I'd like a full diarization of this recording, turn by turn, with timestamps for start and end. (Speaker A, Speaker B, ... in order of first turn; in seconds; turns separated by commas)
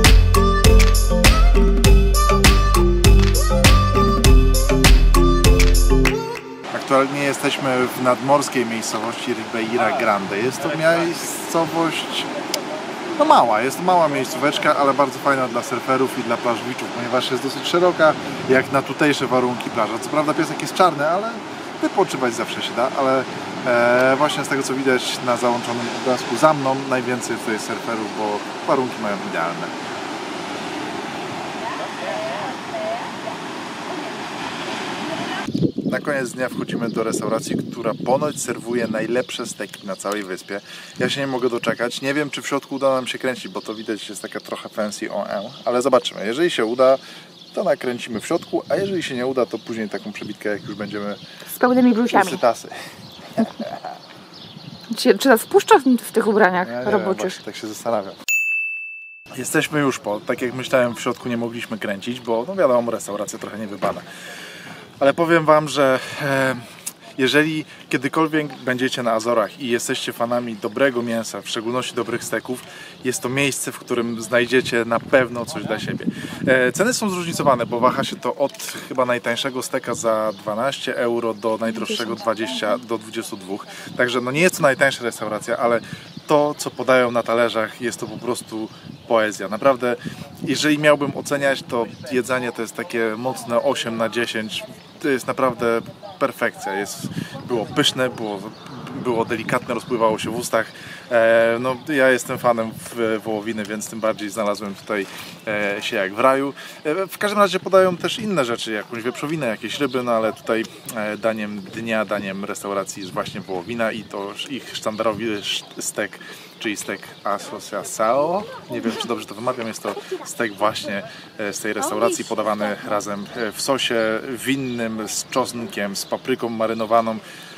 Speaker A: 6.7-12.3, Speaker A: 13.1-29.7, Speaker A: 35.9-47.0, Speaker A: 47.5-51.2, Speaker B: 51.5-52.4, Speaker A: 52.1-52.8, Speaker A: 53.3-53.8, Speaker B: 54.9-57.4, Speaker A: 56.6-58.2, Speaker A: 59.3-64.0, Speaker A: 65.0-127.2, Speaker B: 122.0-122.4